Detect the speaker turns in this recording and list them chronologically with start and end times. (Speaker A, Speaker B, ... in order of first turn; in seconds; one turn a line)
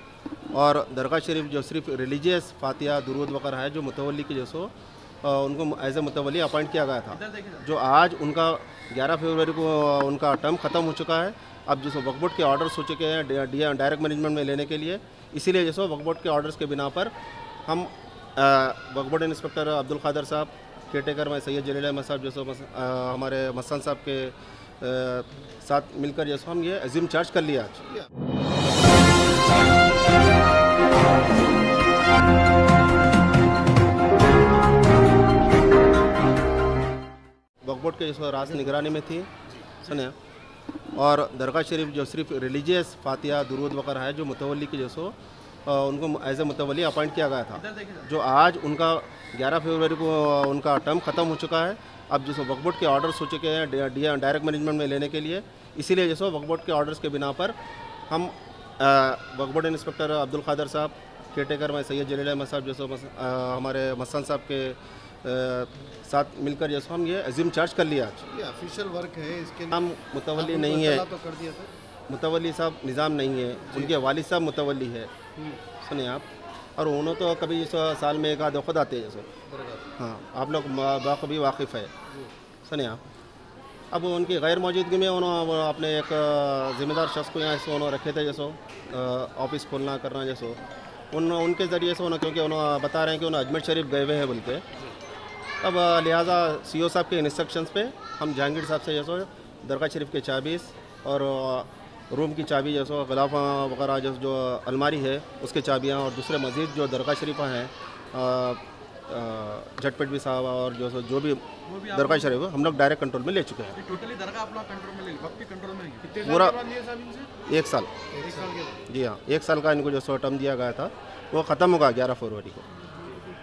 Speaker A: 0.5-17.1
Speaker B: 7.1-7.6
Speaker A: 17.6-27.9
Speaker A: 37.6-40.1
Speaker A: 40.9-57.5
Speaker B: 47.6-48.0
Speaker A: 58.1-68.3
Speaker C: 68.3-69.7
Speaker A: 69.7-71.1
Speaker C: 70.4-71.7
Speaker A: 72.1-75.1
Speaker A: 75.8-79.3
Speaker C: 79.5-79.9
Speaker A: 80.0-81.9
Speaker A: 82.6-83.0
Speaker A: 83.9-90.6
Speaker A: 91.1-94.7
Speaker A: 95.6-113.9
Speaker B: 111.7-112.4
Speaker B: 113.7-117.3
Speaker A: 116.2-116.6
Speaker A: 117.5-117.9
Speaker C: 118.1-118.8
Speaker B: 118.3-118.7
Speaker A: 118.8-122.7